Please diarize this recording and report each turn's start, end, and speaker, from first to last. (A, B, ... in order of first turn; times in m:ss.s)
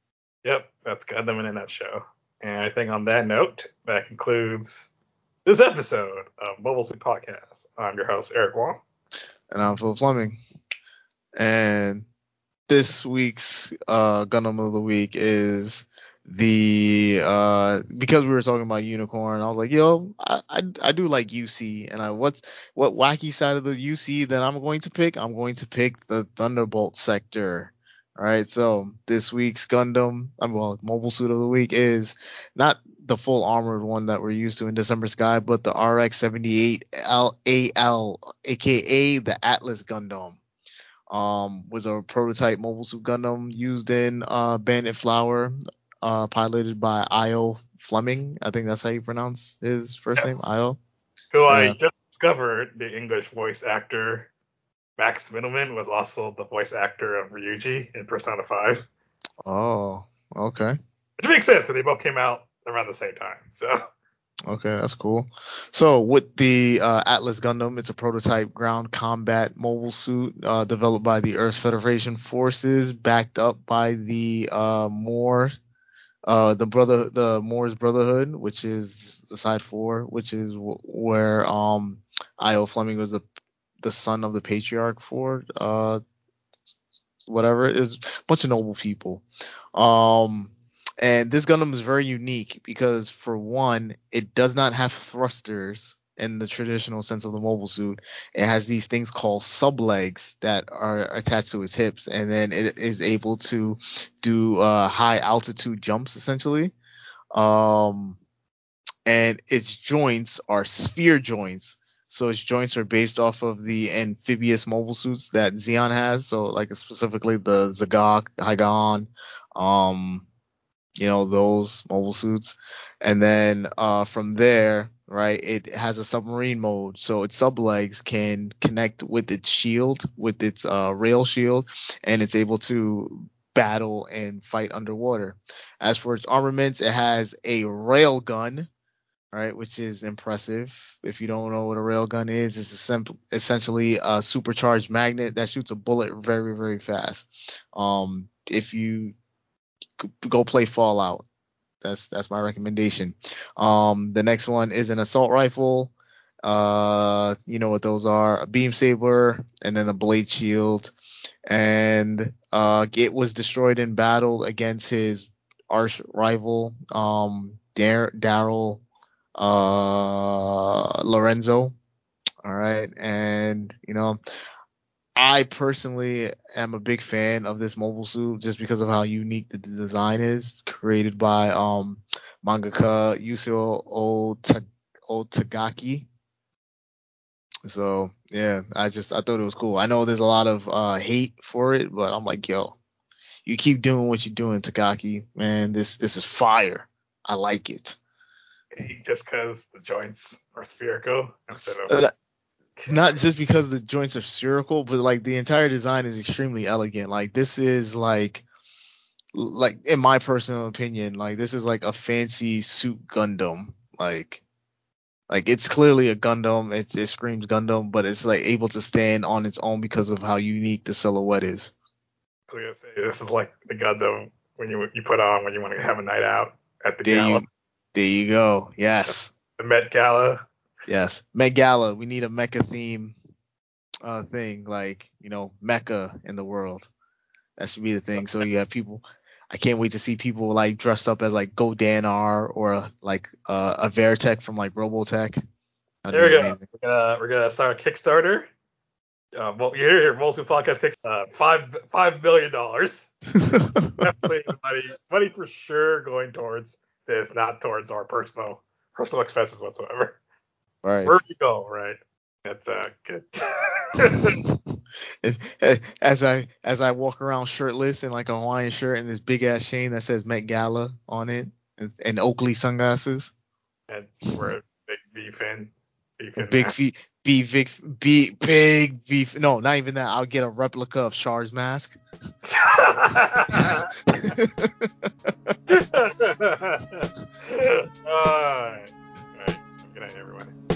0:00.4-0:04.9 A
0:05.4-0:08.8 A
0:09.5-0:10.4 B
0:11.4-0:12.0 B
0:12.7-0:40.4 B
0:41.1-0:50.8 B
0:50.2-0:50.5 A
0:51.3-0:54.3 A
0:51.5-0:51.8 B
0:55.0-0:58.8 A
0:59.4-1:00.8 B
1:01.2-1:03.8 A
1:04.5-1:15.5 B
1:16.2-1:23.2 B
1:23.8-1:26.0 B
1:27.2-1:29.2 B
1:29.7-1:46.7 B
1:47.3-1:48.2 B
1:49.0-2:00.2 B
2:01.0-2:18.7 B
2:19.3-2:29.1 B
2:30.0-2:31.2 B
2:31.8-2:35.9 B
2:36.4-2:40.9 B
2:41.5-2:48.8 B
2:49.4-2:51.7 B
2:52.4-2:54.2 B
2:55.2-3:06.1 B
3:07.6-3:12.8 B
3:13.4-3:18.0 B
3:18.7-3:22.0 A
3:22.8-3:23.1 A
3:22.9-3:28.4 B
3:29.3-3:34.4 B
3:35.3-3:41.7 B
3:42.5-3:47.4 A
3:47.0-3:49.3 B
3:49.1-3:50.4 A
3:50.9-3:53.2 B
3:54.0-3:56.9 B
3:57.6-4:05.4 B
3:58.2-3:58.4 A
4:06.0-4:06.6 B
4:06.1-4:08.5 A
4:09.3-4:13.1 A
4:13.3-4:14.0 B
4:14.0-4:20.2 A
4:20.8-4:21.1 B
4:21.0-4:24.4 A
4:24.2-4:24.6 B
4:25.2-4:33.3 B
4:33.9-4:36.8 A
4:36.4-4:42.0 B
4:42.4-4:44.3 A
4:44.1-4:45.5 B
4:45.7-4:50.5 A